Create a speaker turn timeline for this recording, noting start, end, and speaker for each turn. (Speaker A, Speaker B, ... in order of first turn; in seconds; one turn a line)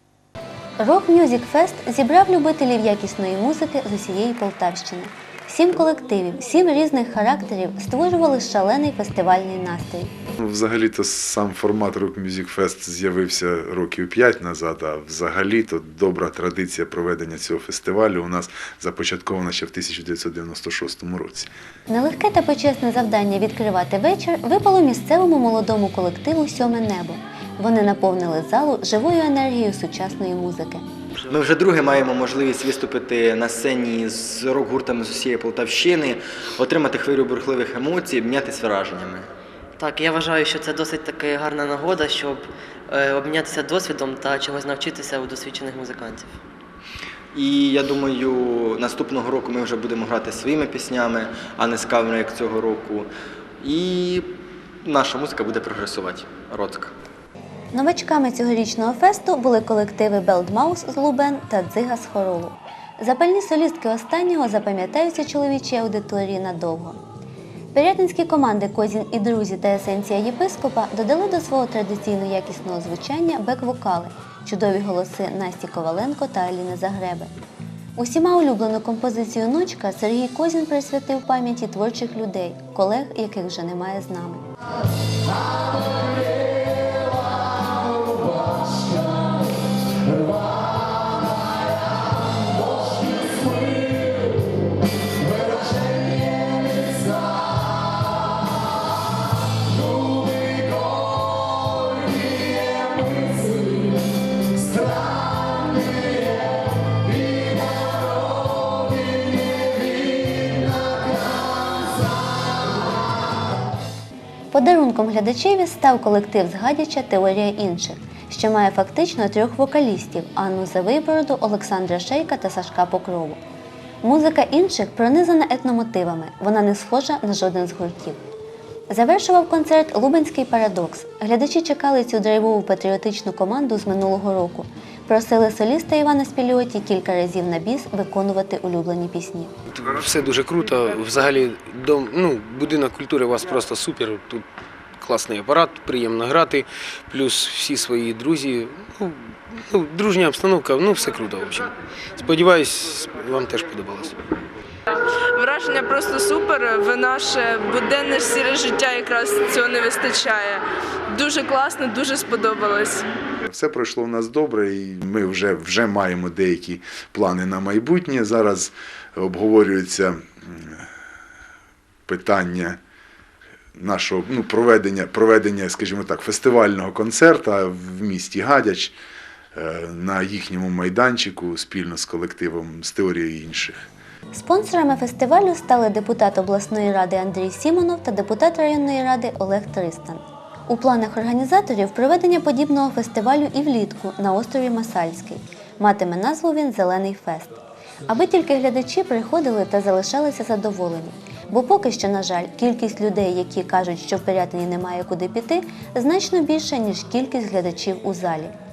Speaker A: 0.8-10.1
Speaker B: 10.4-21.5
Speaker A: 21.9-30.8
Speaker C: 31.3-39.3
Speaker D: 39.8-46.3
Speaker C: 47.3-53.1
Speaker C: 53.6-54.3
Speaker C: 54.8-56.9
Speaker A: 57.7-67.0
Speaker A: 67.7-77.3
Speaker A: 78.0-84.4
Speaker A: 114.5-123.4
Speaker A: 124.0-128.2
Speaker A: 128.9-139.5
Speaker E: 139.7-144.4
Speaker E: 145.0-154.2
Speaker F: 155.3-163.1
Speaker B: 163.5-170.8
Speaker B: 172.1-172.8
Speaker B: 173.8-179.0
Speaker B: 179.6-183.9
Speaker A: 184.3-197.6
Speaker A: 198.1-208.5